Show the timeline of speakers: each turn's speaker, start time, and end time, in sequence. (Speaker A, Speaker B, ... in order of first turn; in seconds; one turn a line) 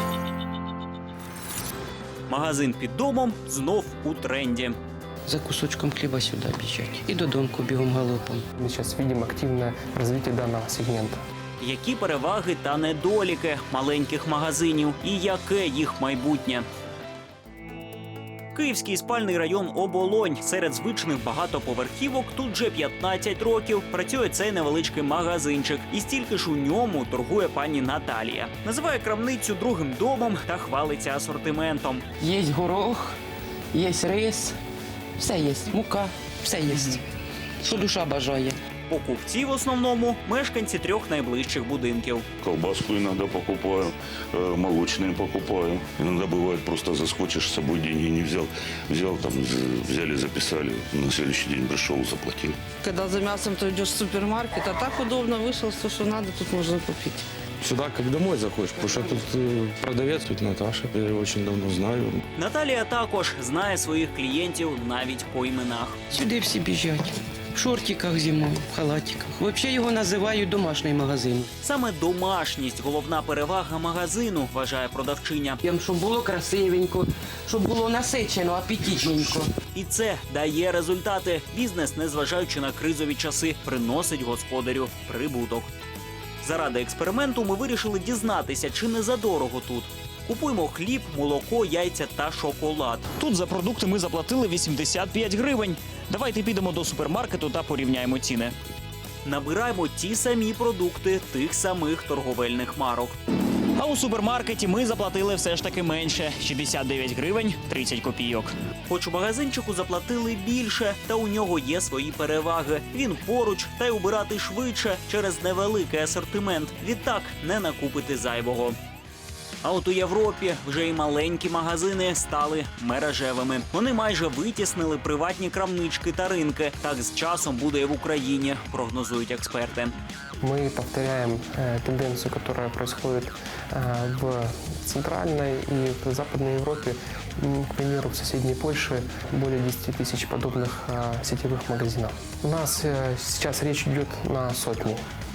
Speaker A: 2.3-4.8
Speaker B: 5.2-8.4
Speaker C: 8.6-11.2
Speaker A: 11.6-16.6
Speaker A: 18.5-32.0
Speaker B: 32.2-33.2
Speaker B: 33.7-34.6
Speaker B: 35.2-37.0
Speaker B: 37.6-38.6
Speaker A: 38.9-42.2
Speaker D: 42.4-52.6
Speaker E: 52.8-57.2
Speaker F: 57.6-62.2
Speaker A: 62.4-66.0
Speaker B: 66.1-71.5
Speaker A: 71.6-75.6
Speaker B: 75.6-79.5
Speaker A: 79.7-85.7
Speaker A: 86.4-98.5
Speaker A: 99.2-103.2
Speaker A: 103.8-118.8
Speaker A: 119.6-129.9
Speaker C: 130.4-145.0